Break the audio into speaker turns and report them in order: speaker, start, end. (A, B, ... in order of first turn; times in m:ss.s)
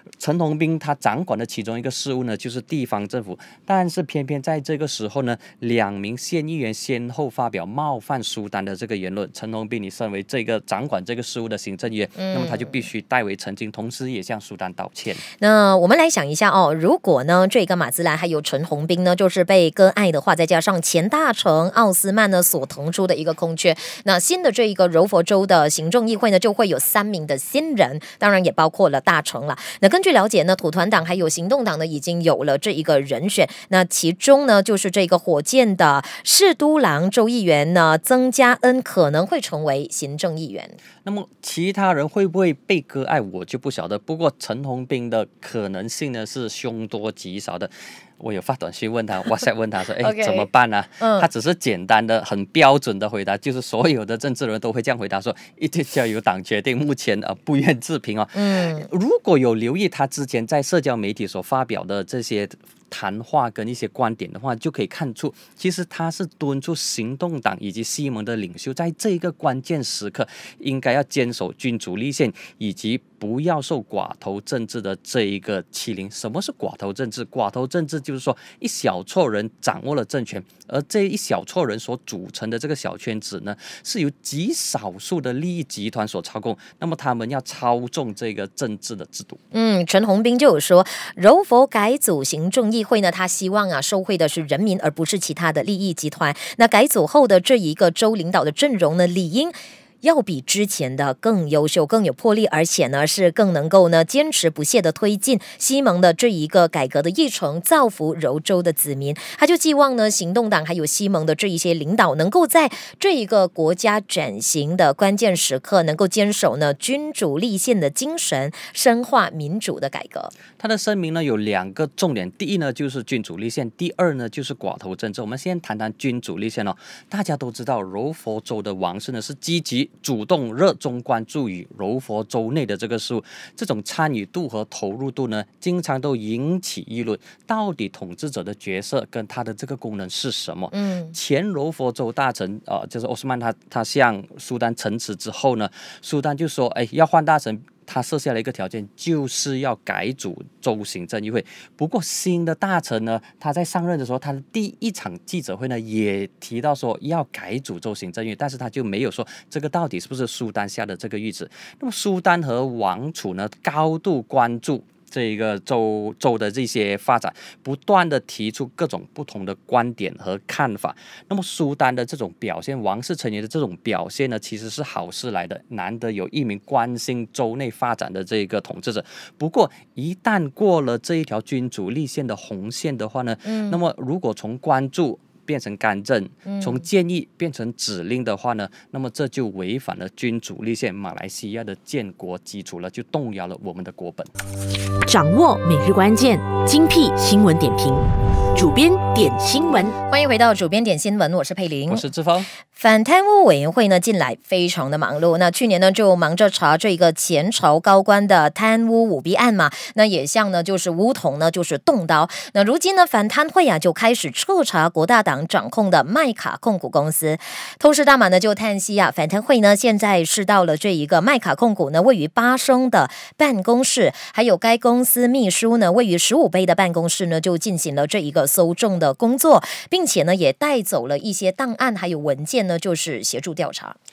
0:00.2-0:15.2 A
0:12.2-0:12.8 B
0:15.4-0:40.8 B
0:41.0-1:29.4 A
0:50.0-0:50.5 B
0:51.0-0:51.3 B
0:58.3-0:58.9 B
1:29.5-2:00.3 B
2:00.6-3:14.3 A
2:20.7-2:21.2 B
3:03.4-3:03.8 B
3:06.5-3:06.8 B
3:15.0-3:19.9 C
3:20.1-3:22.0 B
3:21.9-3:22.5 A
3:22.7-3:54.0 B